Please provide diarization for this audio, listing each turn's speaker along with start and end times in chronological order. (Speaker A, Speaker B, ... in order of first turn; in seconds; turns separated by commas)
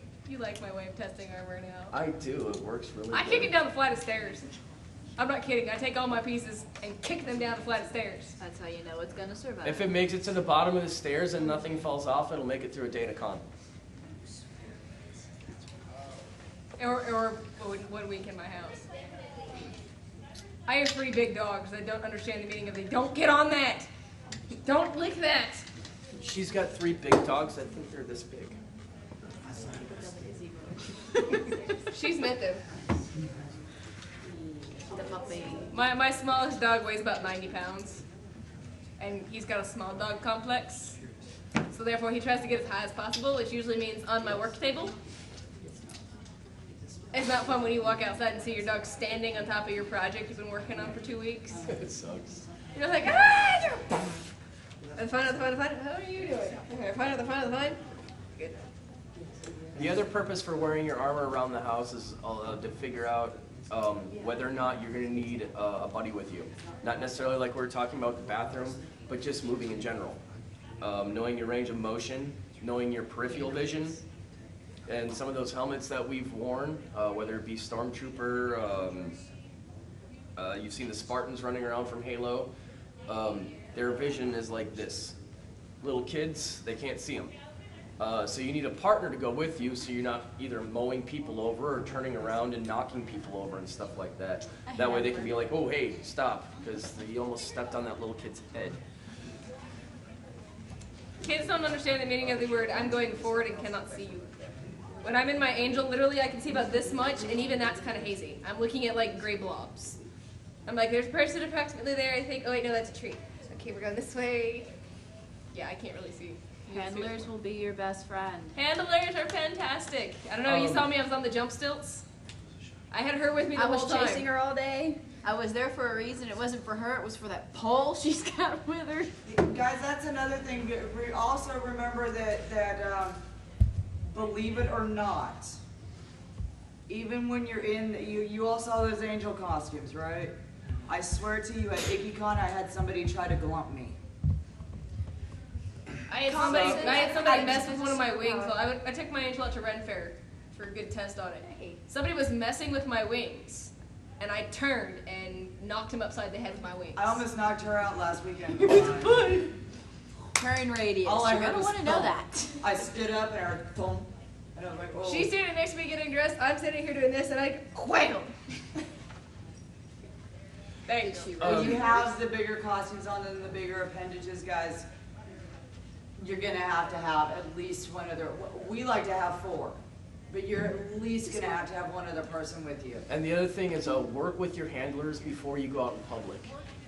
Speaker A: 0.2-1.9, Speaker B: 1.9-3.5, Speaker A: 3.1-4.5, Speaker A: 5.2-8.3, Speaker C: 8.4-9.9, Speaker B: 9.6-13.4, Speaker A: 16.8-18.9, Speaker A: 20.7-23.9, Speaker A: 24.6-25.6, Speaker B: 26.2-28.6, Speaker C: 29.6-31.6, Speaker A: 31.9-32.6, Speaker C: 34.3-35.7, Speaker A: 35.7-38.0, Speaker A: 39.0-41.0, Speaker A: 41.7-45.0, Speaker A: 47.1-51.7, Speaker B: 51.6-52.4, Speaker A: 52.7-54.2, Speaker A: 55.0-57.8, Speaker A: 58.4-58.6, Speaker B: 59.7-70.2, Speaker B: 70.8-74.0, Speaker B: 74.8-79.2, Speaker B: 80.3-82.5, Speaker B: 83.1-85.2, Speaker B: 85.8-87.3, Speaker B: 88.0-98.8, Speaker A: 101.2-104.3, Speaker A: 105.0-110.0, Speaker A: 110.7-114.7, Speaker A: 115.5-117.2, Speaker C: 116.7-118.5, Speaker A: 118.5-122.0, Speaker B: 120.4-120.9, Speaker A: 122.9-124.2, Speaker C: 123.5-129.1, Speaker D: 129.2-133.2, Speaker D: 134.1-135.6, Speaker D: 136.9-140.3, Speaker D: 140.9-144.0, Speaker A: 146.1-157.2, Speaker C: 146.1-148.6, Speaker D: 146.3-147.6, Speaker C: 151.4-151.8, Speaker D: 156.9-159.2, Speaker C: 158.8-159.5, Speaker C: 160.3-162.6, Speaker D: 161.0-165.3, Speaker A: 165.0-168.3, Speaker A: 170.8-171.8, Speaker C: 171.0-172.1, Speaker D: 171.4-174.8, Speaker B: 171.4-171.8, Speaker D: 176.2-183.1, Speaker B: 183.1-186.5